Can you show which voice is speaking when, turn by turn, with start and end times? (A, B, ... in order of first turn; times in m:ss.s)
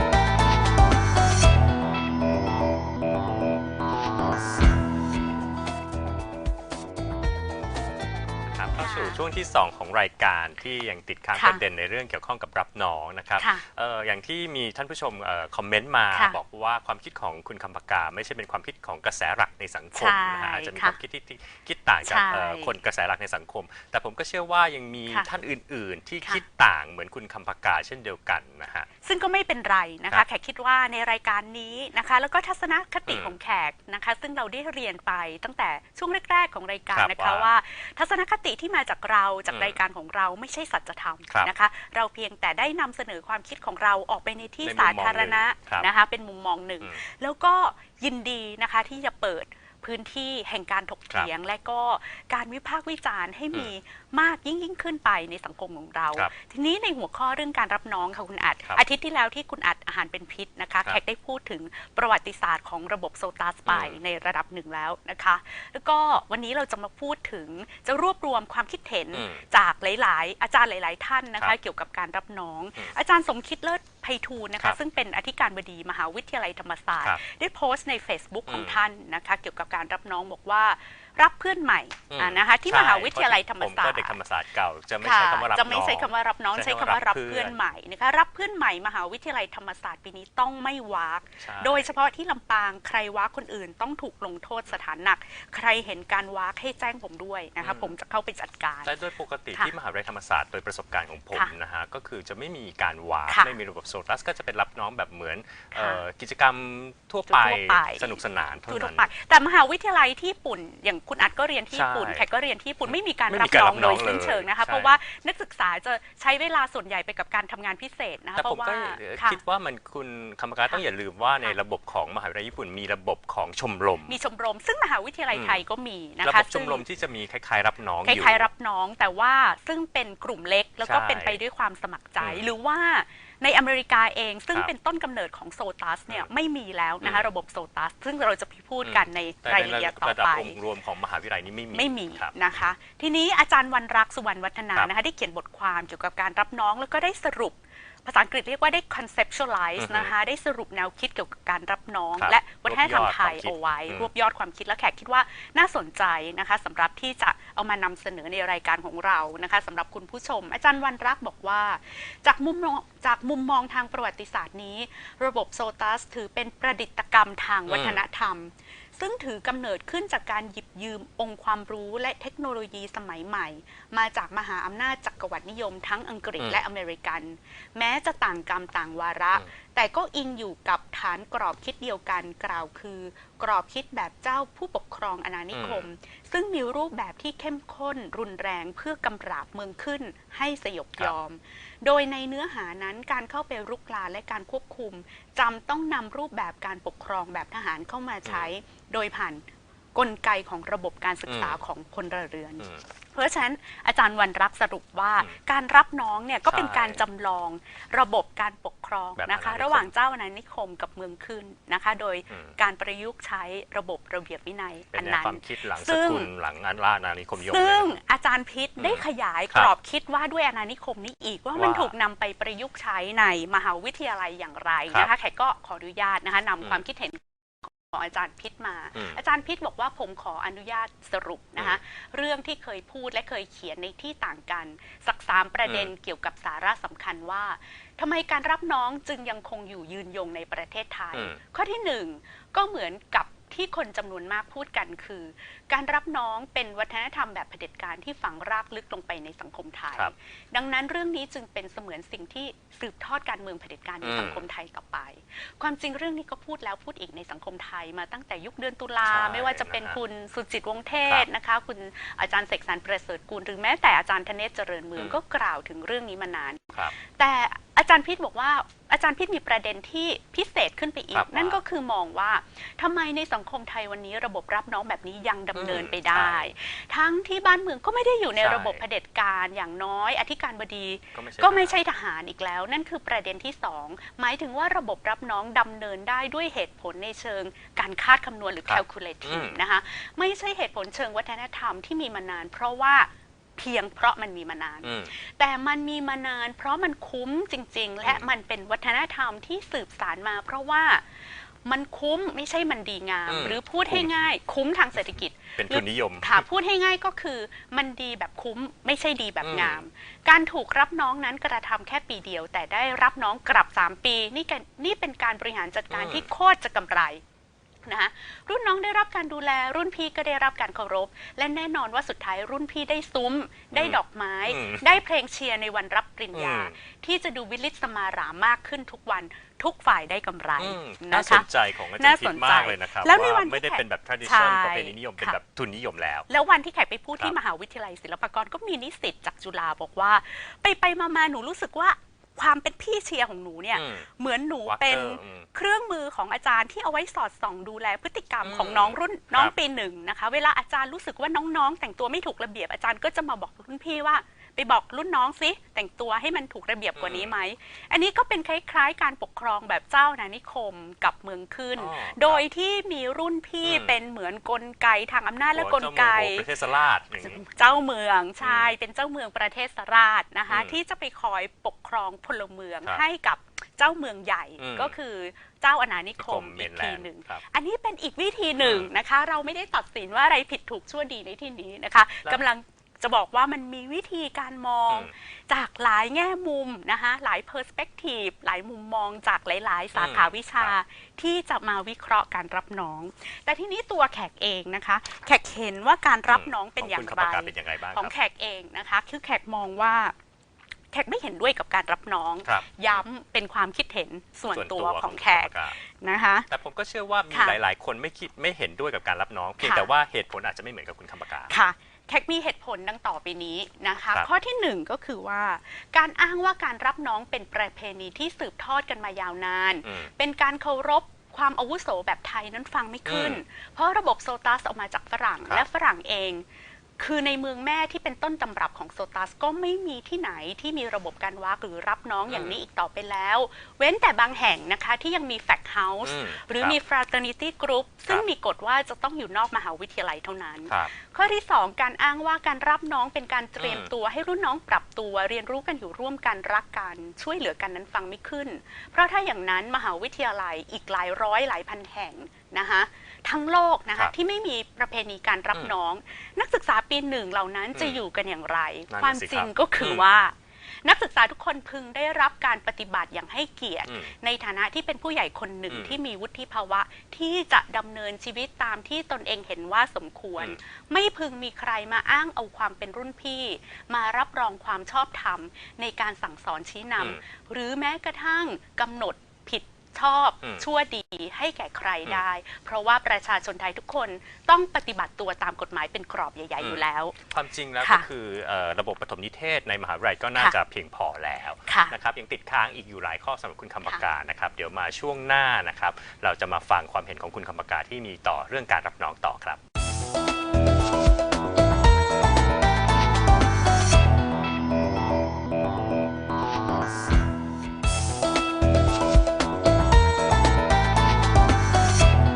0:08.5-0:28.9 A
0:08.8-0:09.2 B
0:11.3-0:11.6 B
0:13.4-0:13.6 B
0:16.1-0:16.4 B
0:19.9-0:21.0 B
0:22.0-0:22.8 B
0:29.0-1:24.2 B
0:33.1-0:33.3 A
0:36.9-0:37.5 A
0:39.5-0:39.8 A
0:44.6-0:45.9 A
1:03.7-1:04.0 A
1:09.1-1:09.4 A
1:18.5-1:18.8 A
1:22.1-1:27.6 A
1:25.0-1:38.9 B
1:31.4-1:31.9 A
1:37.6-1:37.9 A
1:38.8-1:49.1 A
1:43.3-1:43.5 B
1:45.7-1:46.0 B
1:47.3-1:59.4 B
1:51.7-1:52.2 A
1:52.9-1:55.0 A
1:58.4-2:04.2 A
2:04.1-2:06.8 B
2:05.3-2:05.6 A
2:06.2-2:08.5 A
2:08.0-2:20.6 B
2:10.8-2:11.4 A
2:12.2-2:12.5 A
2:17.0-2:17.3 A
2:18.8-2:22.4 A
2:21.7-3:36.3 B
2:29.8-2:30.1 A
2:32.2-2:34.1 A
2:47.7-2:48.0 A
3:05.5-3:05.8 A
3:18.2-3:18.5 A
3:21.3-3:21.6 A
3:26.4-3:27.0 A
3:29.2-3:29.9 A
3:32.3-3:32.6 A
3:34.9-3:37.9 A
3:37.4-5:17.2 B
3:38.8-3:39.7 A
3:41.6-3:41.9 A
3:55.6-3:55.9 A
4:01.1-4:01.4 A
4:14.0-4:14.4 A
4:19.0-4:20.0 A
4:31.1-4:31.6 A
4:35.5-4:36.5 A
4:38.4-4:38.8 A
4:41.1-4:41.8 A
4:48.6-4:49.6 A
4:54.8-4:55.1 A
4:58.0-4:58.3 A
5:03.3-5:04.2 A
5:05.6-5:06.4 A
5:09.4-5:09.8 A
5:15.9-5:16.2 A
5:17.8-5:35.4 B
5:23.7-5:25.0 A
5:26.3-5:26.7 A
5:30.6-5:36.3 A
5:36.3-6:06.5 B
5:43.7-5:44.0 A
5:44.6-5:45.5 A
5:48.4-5:49.5 A
5:57.0-5:57.3 A
6:01.8-6:02.4 A
6:03.6-6:03.9 A
6:05.5-6:07.4 A
6:07.2-6:40.1 B
6:08.4-6:08.7 A
6:10.5-6:10.8 A
6:14.6-6:14.9 A
6:16.2-6:17.4 A
6:18.6-6:18.9 A
6:29.9-6:30.7 A
6:36.3-6:38.1 A
6:40.9-6:46.5 B
6:42.4-6:43.0 A
6:44.5-6:45.8 A
6:46.5-6:51.5 A
6:47.3-6:47.6 B
6:49.6-6:49.9 B
6:51.5-7:06.4 B
6:59.8-7:00.1 A
7:03.1-7:03.4 A
7:07.0-8:07.2 B
7:12.3-7:12.6 A
7:16.0-7:16.8 A
7:23.6-7:23.9 A
7:37.7-7:38.0 A
7:38.9-7:40.0 A
7:43.9-7:44.1 A
7:45.7-7:45.9 A
8:06.6-8:19.6 A
8:07.8-8:08.0 B
8:11.7-8:11.9 B